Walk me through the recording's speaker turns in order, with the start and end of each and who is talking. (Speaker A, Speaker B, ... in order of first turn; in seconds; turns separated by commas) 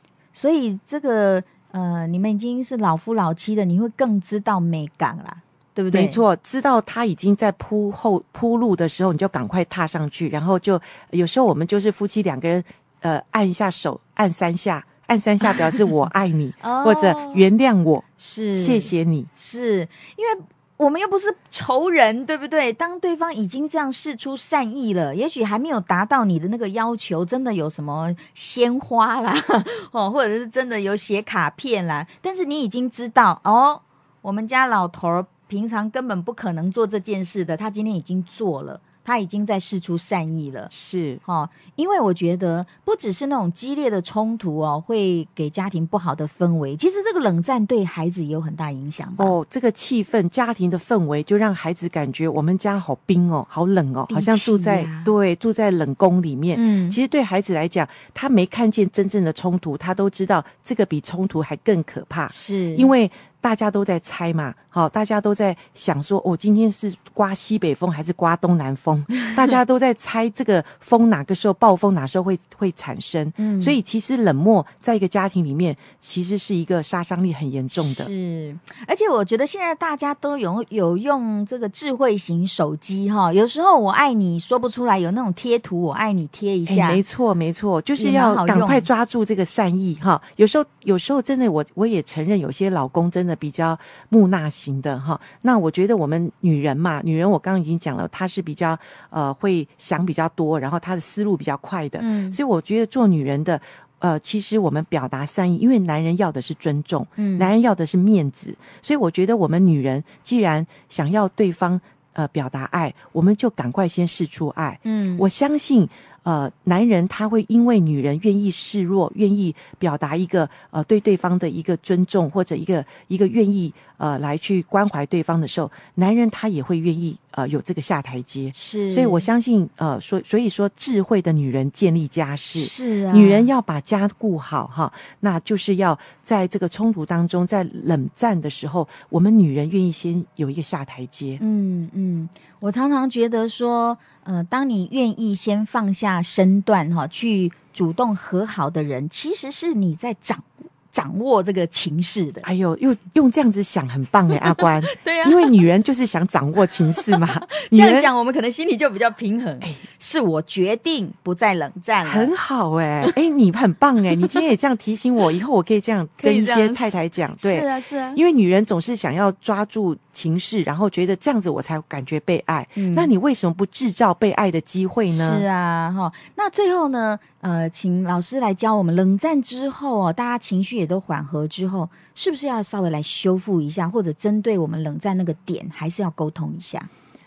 Speaker A: 0.3-6.2, Speaker B: 5.9-19.3, Speaker A: 16.6-17.5, Speaker A: 18.2-40.7, Speaker B: 40.7-41.2, Speaker A: 41.3-49.4, Speaker B: 49.2-78.1, Speaker A: 54.1-55.1, Speaker A: 56.5-57.0, Speaker A: 62.3-62.9, Speaker A: 73.4-73.8, Speaker A: 77.8-87.0, Speaker B: 86.7-141.4, Speaker A: 88.0-88.9, Speaker A: 102.0-102.4, Speaker A: 107.2-107.5, Speaker A: 114.8-115.2, Speaker A: 128.5-129.3, Speaker A: 132.6-133.5, Speaker A: 141.4-152.5, Speaker B: 152.4-158.1, Speaker A: 154.3-155.6, Speaker A: 157.1-162.3, Speaker B: 162.0-175.5, Speaker A: 166.2-168.2, Speaker A: 172.8-173.1, Speaker A: 175.1-186.9